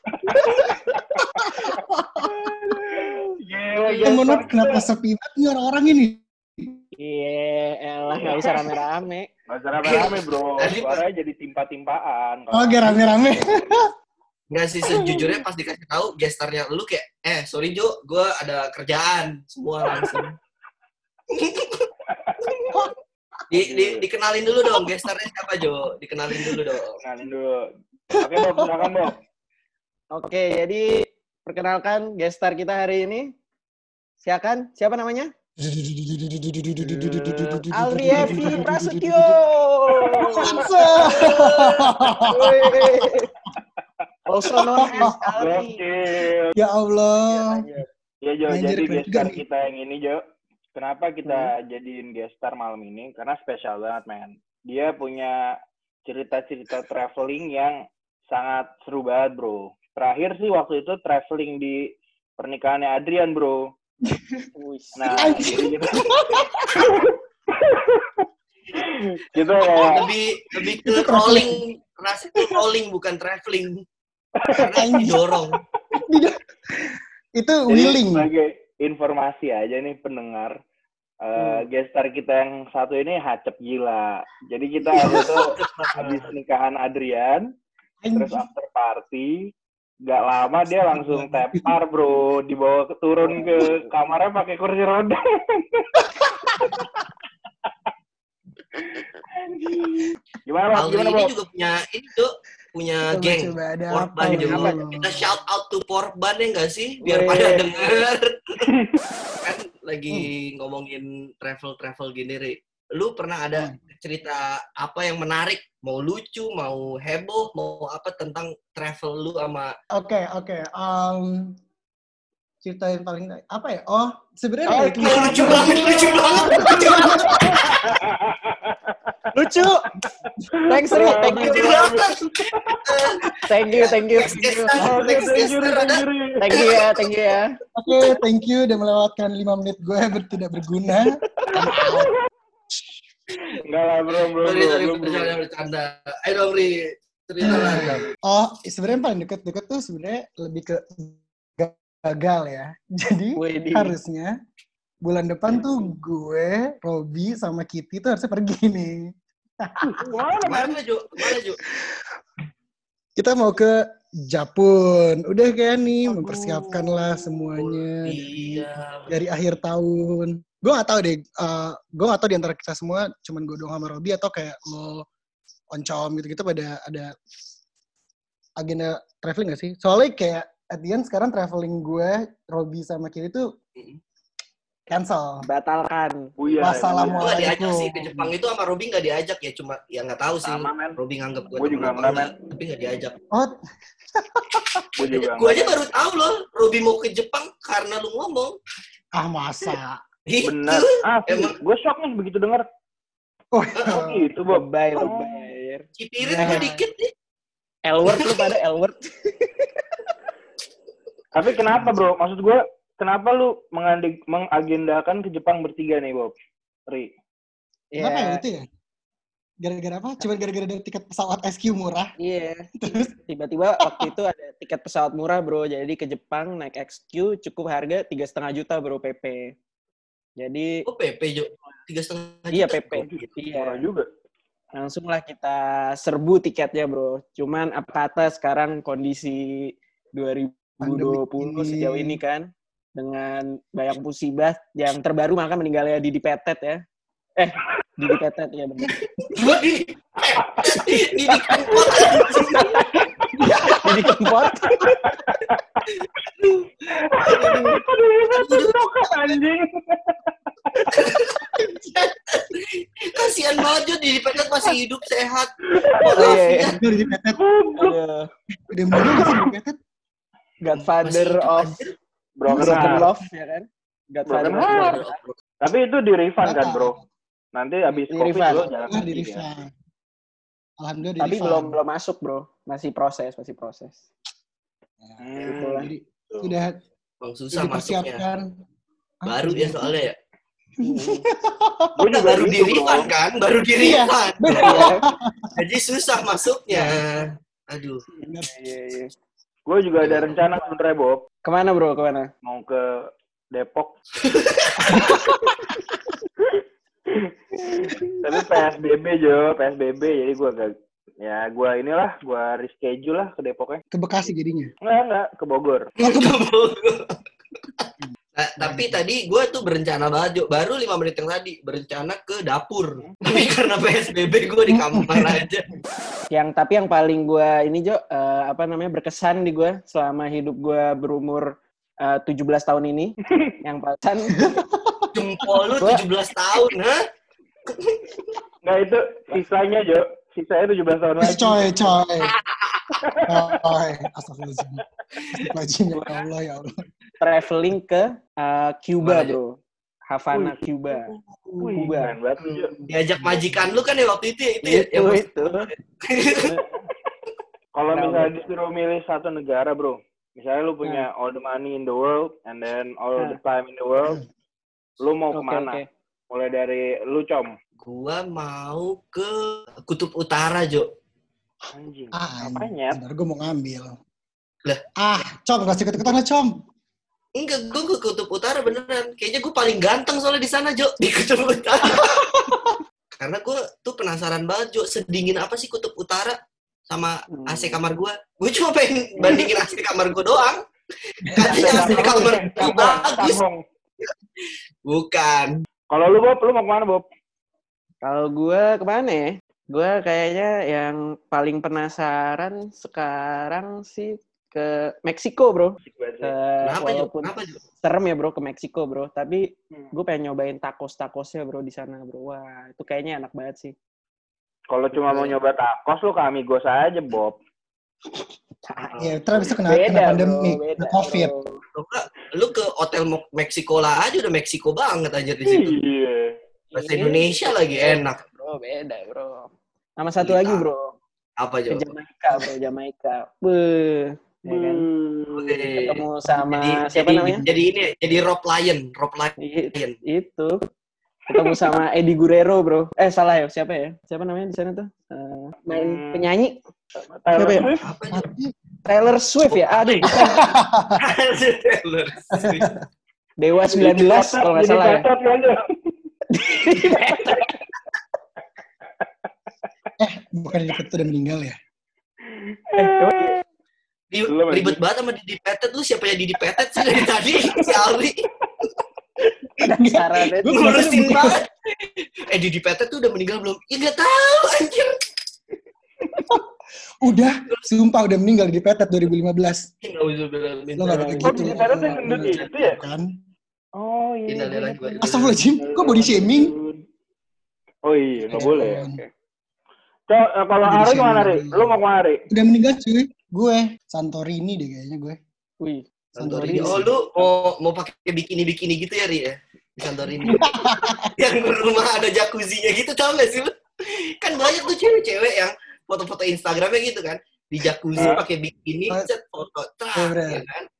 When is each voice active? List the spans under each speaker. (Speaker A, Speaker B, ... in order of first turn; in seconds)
Speaker A: 0.3-0.6, 1.4-2.5, 4.0-6.8, 12.5-13.8, 26.3-26.8, 28.1-29.1, 35.6-39.4, 40.4-43.1, 44.5-45.2, 46.5-47.7, 48.5-49.4, 64.0-64.5, 65.1-67.1, 70.6-71.6, 74.6-75.2, 76.1-78.3, 84.9-85.4, 88.0-88.5, 90.7-91.7, 96.1-96.9, 103.0-105.3, 119.9-121.5, 122.6-128.1, 129.6-130.4, 130.9-131.5, 137.8-142.1, 147.4-154.3, 155.0-160.1, 161.2-162.0, 163.2-168.2, 169.1-175.0, 175.7-177.1, 178.6-183.4, 184.9-185.4, 186.6-188.3, 193.3-193.6, 194.1-194.9, 199.2-200.0, 203.5-204.3, 206.2-206.7, 211.7-212.0, 218.0-218.7, 219.6-222.1, 222.8-223.1, 223.8-224.1, 240.8-242.2, 249.4-249.7, 259.1-259.4, 266.8-267.4, 268.7-269.8, 272.5-273.2, 276.4-277.0, 278.9-279.7, 280.8-281.8, 285.0-286.8, 287.5-288.5, 289.2-290.0, 290.8-291.9, 293.8-295.5, 296.7-297.0, 298.2-298.5, 304.8-305.4, 313.9-314.7, 318.0-319.0, 324.7-325.4, 334.4-335.6, 341.2-342.3, 343.3-346.8, 372.1-373.9, 375.0-376.5, 382.2-382.7, 391.2-392.2, 418.9-421.3, 448.1-448.5, 450.1-451.0, 452.3-452.8, 460.0-461.6, 469.6-471.4, 477.0-479.7, 480.8-483.1, 485.0-486.5, 488.2-489.0, 490.6-495.2, 496.1-496.9, 500.3-501.1, 509.9-510.4
Speaker B: 0.3-1.5, 3.0-4.9, 9.5-13.1, 22.1-22.7, 23.5-24.1, 27.0-27.6, 28.2-29.1, 38.1-38.6, 40.0-41.2, 44.8-46.5, 48.2-50.2, 50.8-55.4, 56.0-57.8, 58.3-61.8, 62.4-63.6, 65.0-66.0, 66.8-70.1, 74.4-75.0, 77.7-80.5, 81.2-87.5, 88.1-89.4, 90.0-96.0, 98.8-101.3, 127.4-129.1, 130.5-133.0, 134.8-136.4, 141.5-142.2, 143.6-145.4, 159.8-160.8, 166.6-166.8, 186.4-187.5, 190.4-190.9, 191.6-192.3, 195.0-195.8, 200.4-202.6, 203.9-205.5, 211.3-216.3, 233.1-234.1, 251.7-252.2, 254.8-255.8, 256.9-260.9, 265.7-266.4, 267.4-268.0, 269.0-269.4, 272.4-273.1, 274.3-275.0, 275.6-276.9, 277.5-279.4, 285.2-286.5, 292.0-293.1, 299.6-301.2, 302.4-303.9, 306.5-313.8, 314.8-315.9, 338.6-341.7, 343.0-343.6, 350.3-350.6, 351.6-352.7, 357.8-364.2, 365.0-367.5, 371.7-373.0, 391.5-393.6, 395.9-397.0, 405.8-406.3, 414.7-417.4, 425.4-426.4, 434.5-435.7, 445.7-446.3, 447.1-447.9, 453.7-455.6, 456.7-457.6, 462.3-463.3, 464.3-464.8, 481.2-482.8, 483.8-485.1, 485.6-486.8, 487.9-488.9, 490.1-492.2
Speaker C: 0.4-0.8, 2.2-3.4, 7.0-9.3, 30.1-33.3, 34.2-35.3, 36.8-41.4, 42.2-43.3, 44.3-45.8, 47.3-47.9, 51.2-51.5, 64.5-65.4, 81.4-81.6, 93.2-93.9, 104.3-104.8, 107.0-108.0, 124.7-127.4, 129.3-129.9, 130.7-131.8, 133.5-134.9, 136.4-137.5, 153.4-153.9, 185.4-187.1, 204.5-205.9, 206.4-206.8, 207.9-209.8, 217.9-218.4, 222.2-222.7, 223.3-229.5, 230.4-230.8, 232.5-233.8, 234.8-246.8, 247.4-248.9, 251.5-255.0, 257.2-257.8, 260.8-261.0, 266.1-266.8, 267.8-268.3, 270.6-271.8, 272.5-275.1, 277.9-278.9, 281.2-284.1, 285.4-285.9, 290.8-291.2, 294.6-295.0, 298.4-299.1, 301.4-302.3, 307.6-308.5, 326.3-334.5, 347.2-351.1, 351.7-352.2, 354.6-355.6, 357.9-358.3, 365.3-365.9, 387.3-387.8, 389.2-389.5, 398.0-413.8, 414.9-415.4, 418.7-421.6, 426.7-430.9, 431.7-434.9, 435.7-437.4, 439.4-440.6, 441.3-446.6, 447.3-447.7, 448.9-450.3, 453.4-455.1, 456.3-457.5, 462.8-463.4, 469.6-470.9, 480.9-482.5, 488.7-489.1, 495.6-496.9
Speaker D: 3.9-4.2, 9.8-11.0, 14.5-20.4, 21.3-21.9, 23.5-27.0, 69.6-73.8, 74.5-75.6, 84.9-86.4, 100.7-108.7, 109.4-119.8, 125.0-128.0, 131.3-136.9, 144.4-148.1, 160.4-161.6, 167.6-169.1, 187.2-193.2, 195.0-198.6, 200.2-201.5, 206.0-207.1, 208.1-208.4, 230.9-233.3, 249.2-253.8, 255.9-257.4, 258.2-258.8, 260.9-266.9, 270.7-271.9, 274.5-275.4, 287.2-288.2, 289.2-290.1, 292.0-294.9, 295.6-298.0, 300.0-300.4, 304.2-305.4, 316.0-317.2, 317.8-325.6, 335.1-337.0, 337.7-338.2, 342.2-343.0, 349.0-349.4, 350.9-351.7, 352.4-356.6, 367.8-370.9, 377.4-382.3, 383.1-386.4, 386.9-390.6, 391.2-393.4, 394.9-395.6, 406.6-407.6, 421.7-425.8, 426.8-428.2, 430.2-430.6, 431.4-432.5, 435.3-439.9, 447.7-448.3, 449.5-450.3, 451.0-452.7, 464.1-468.3, 470.4-474.9, 479.8-481.4, 484.3-485.4, 496.2-500.5, 501.1-510.6